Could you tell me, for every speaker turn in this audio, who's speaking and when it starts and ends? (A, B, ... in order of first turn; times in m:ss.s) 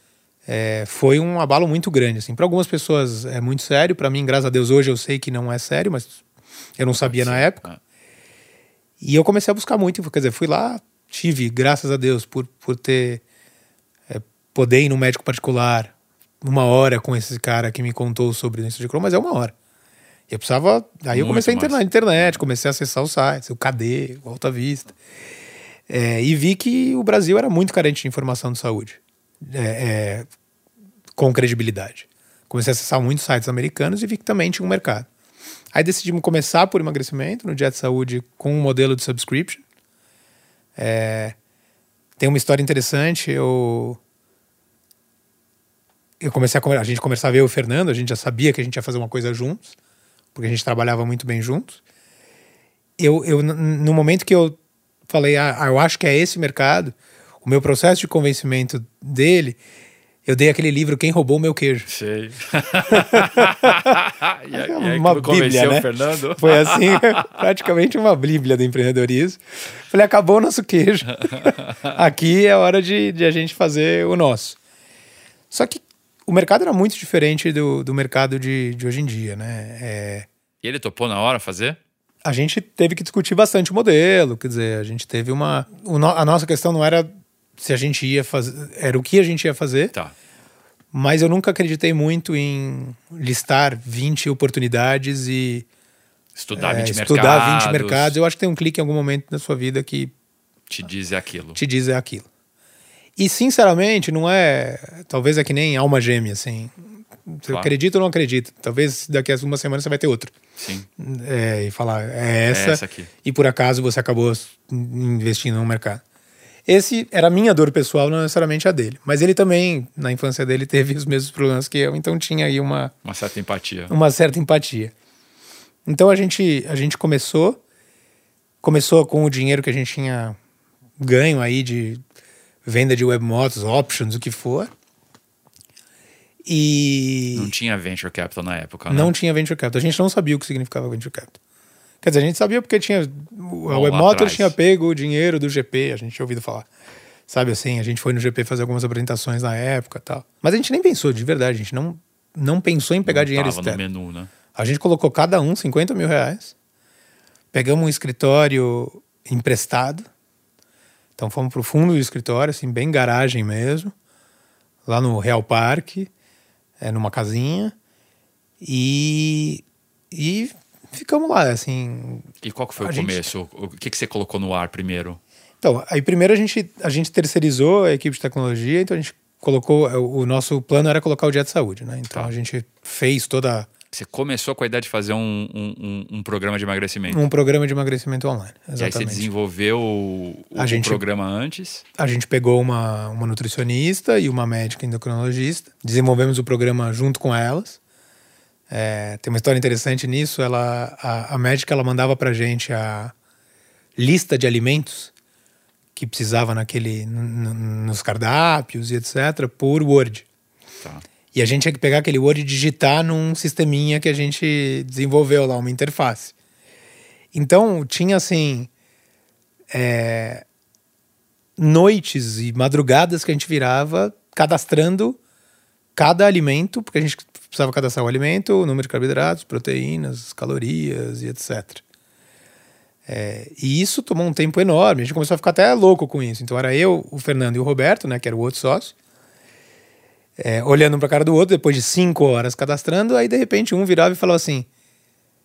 0:00.5-0:06.2 A
0:06.8-0:07.6 A
0:07.0-0:07.8 B
0:09.0-0:13.2 A
0:14.1-0:19.5 A
0:20.3-0:25.0 A
0:21.1-0:22.4 B
0:25.9-0:30.3 A
0:31.2-0:35.1 A
0:35.7-0:39.6 A
0:40.8-0:41.4 A
0:42.2-0:44.0 A
0:46.2-0:49.8 A
0:50.3-0:51.8 A
0:53.0-0:59.6 A
1:00.3-1:01.9 A
1:01.9-1:07.2 B
1:02.9-1:04.0 A
1:04.5-1:14.6 A
1:15.5-1:20.3 A
1:20.6-1:21.8 B
1:22.2-1:29.9 A
1:30.9-1:35.7 A
1:36.4-1:38.2 B
1:36.6-1:40.1 A
1:40.7-1:41.6 B
1:41.6-1:42.3 A
1:43.2-1:50.4 A
1:47.5-1:47.7 B
1:50.6-1:50.9 B
1:51.0-1:56.0 A
1:52.5-1:53.1 B
1:56.7-2:02.9 A
2:03.0-2:03.9 B
2:03.9-2:04.9 A
2:05.9-2:07.6 A
2:08.6-2:10.4 A
2:11.0-2:12.0 A
2:12.6-2:14.7 A
2:16.4-2:17.5 A
2:17.4-2:19.1 B
2:18.9-2:21.4 A
2:22.0-2:26.7 A
2:23.7-2:24.6 B
2:27.3-2:33.8 A
2:33.0-2:34.3 B
2:34.5-2:36.5 A
2:37.5-2:40.1 A
2:41.2-2:43.9 A
2:44.8-2:46.1 A
2:46.8-2:47.8 A
2:48.6-2:53.2 A
2:52.4-2:55.2 B
2:55.6-3:03.7 A
3:03.9-3:07.2 B
3:07.1-3:09.3 A
3:08.8-3:11.8 B
3:10.6-3:11.0 A
3:12.0-3:17.8 A
3:18.7-3:23.1 A
3:24.0-3:25.1 A
3:26.0-3:30.3 A
3:31.3-3:36.3 A
3:37.3-3:38.7 A
3:39.7-3:40.4 A
3:41.6-3:45.2 A
3:46.0-3:51.8 A
3:53.1-3:59.0 A
4:00.4-4:04.7 A